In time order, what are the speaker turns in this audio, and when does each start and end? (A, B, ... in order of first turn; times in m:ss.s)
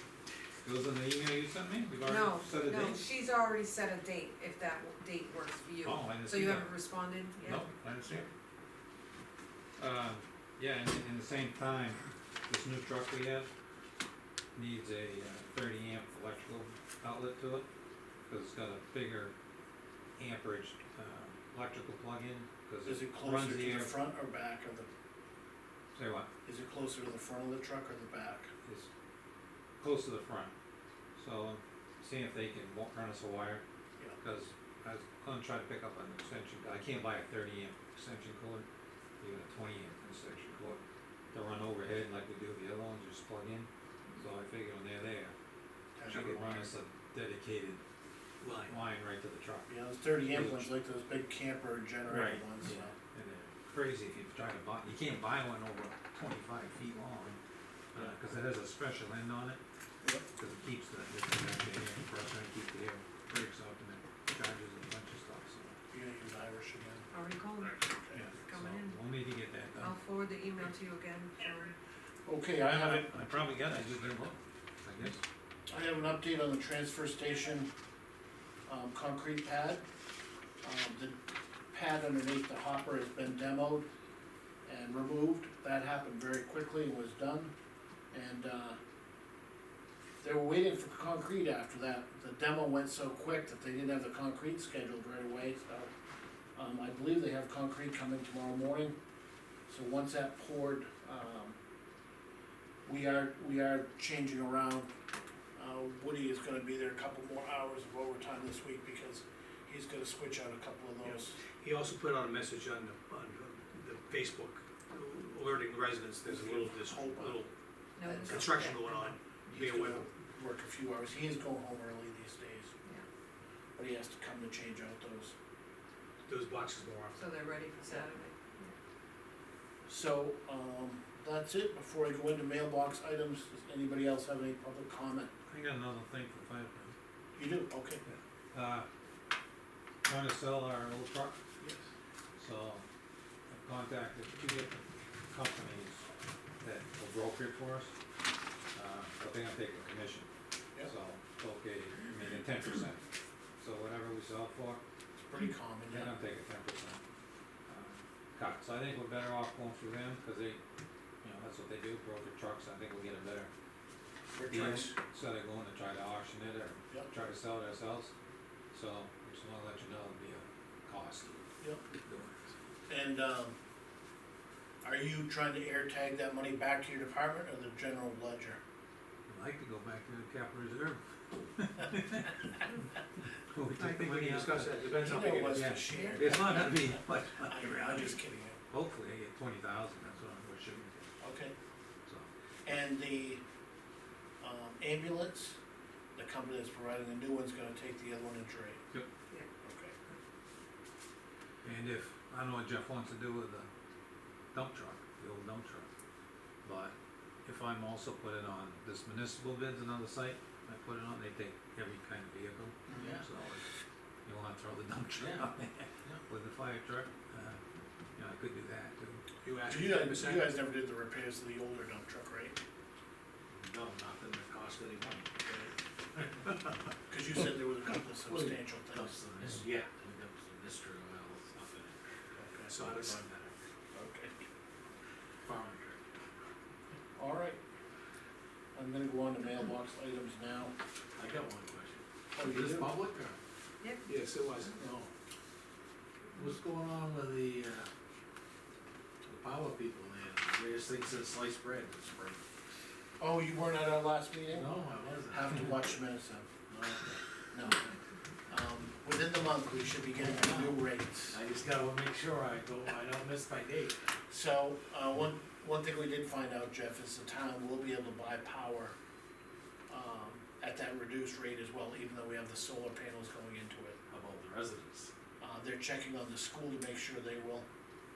0:00.6-0:03.0 A
0:02.0-0:07.6 B
0:05.8-0:08.3 A
0:09.8-0:13.5 A
0:14.6-0:17.7 A
0:18.3-0:19.3 A
0:20.2-0:24.0 A
0:22.8-0:24.9 C
0:26.0-0:26.3 A
0:26.4-0:28.5 C
0:28.6-0:28.9 A
0:29.8-0:30.5 A
0:31.2-0:33.6 A
0:34.2-0:38.7 A
0:39.2-0:45.4 A
0:46.0-0:46.7 C
0:46.1-0:47.8 A
0:48.4-0:48.7 D
0:48.6-0:50.7 A
0:49.7-0:52.9 C
0:52.1-0:57.4 A
0:53.2-0:53.5 E
0:57.9-0:59.6 A
1:00.4-1:05.8 A
1:05.9-1:07.1 C
1:07.1-1:07.8 B
1:07.8-1:08.3 C
1:08.1-1:09.9 A
1:08.4-1:09.0 B
1:09.8-1:11.7 B
1:12.3-1:13.1 C
1:12.6-1:15.2 A
1:15.7-1:17.7 C
1:18.7-1:19.8 C
1:20.6-1:21.2 C
1:21.7-1:23.9 C
1:24.7-1:27.5 C
1:28.1-1:28.8 C
1:30.2-1:35.9 C
1:36.6-1:39.0 C
1:39.7-1:41.6 C
1:42.9-1:44.9 C
1:45.6-1:51.4 C
1:51.0-1:57.5 D
1:56.3-1:57.4 C
1:58.0-1:58.9 B
1:58.1-2:00.1 D
1:58.3-1:58.6 C
1:59.5-2:02.7 C
2:03.8-2:05.3 C
2:06.3-2:07.2 D
2:07.2-2:08.7 B
2:09.9-2:15.3 C
2:15.5-2:17.0 A
2:17.4-2:18.0 C
2:18.0-2:18.9 A
2:20.0-2:21.4 A
2:22.4-2:22.8 A
2:23.5-2:26.1 A
2:26.6-2:27.9 A
2:28.7-2:30.3 A
2:30.8-2:33.0 A
2:33.6-2:34.8 A
2:35.2-2:36.1 C
2:35.9-2:37.0 A
2:37.7-2:40.6 A
2:41.2-2:43.5 A
2:44.3-2:45.0 C
2:44.5-2:48.1 A
2:48.7-2:51.4 A
2:52.0-2:52.4 A
2:52.9-2:53.6 C
2:54.8-2:58.6 C
2:59.3-3:02.7 A
3:03.5-3:04.8 A
3:03.8-3:05.7 D
3:05.0-3:08.6 C
3:05.4-3:11.1 A
3:05.9-3:06.6 B
3:11.2-3:11.5 C
3:12.6-3:13.4 C
3:14.4-3:15.6 C
3:16.2-3:18.8 C
3:19.6-3:20.0 C
3:21.6-3:23.7 A
3:24.5-3:25.9 A
3:26.6-3:33.7 A
3:32.9-3:33.2 C
3:33.0-3:33.3 E
3:34.3-3:37.6 A
3:35.2-3:35.5 E
3:38.2-3:39.3 A
3:39.4-3:40.5 D
3:39.7-3:42.6 C
3:43.5-3:45.3 E
3:45.4-3:45.7 C
3:47.1-3:49.2 C
3:48.3-3:52.0 E
3:52.3-3:52.8 C
3:52.7-3:53.1 D
3:52.7-3:53.5 E
3:53.9-3:54.3 C
3:55.4-3:56.0 E
3:57.2-3:57.6 C
3:58.8-4:00.7 C
4:01.2-4:03.4 E
4:02.3-4:02.9 C
4:03.8-4:04.1 B
4:04.0-4:04.8 D
4:04.8-4:05.1 C
4:06.3-4:07.9 E
4:09.2-4:12.4 E
4:13.2-4:16.5 C
4:14.5-4:15.9 E
4:16.7-4:17.2 E
4:17.5-4:17.8 C
4:18.5-4:21.4 C
4:20.2-4:20.8 E
4:21.3-4:24.0 E
4:24.3-4:29.0 C
4:29.9-4:34.0 C
4:34.1-4:35.1 E
4:35.4-4:37.7 C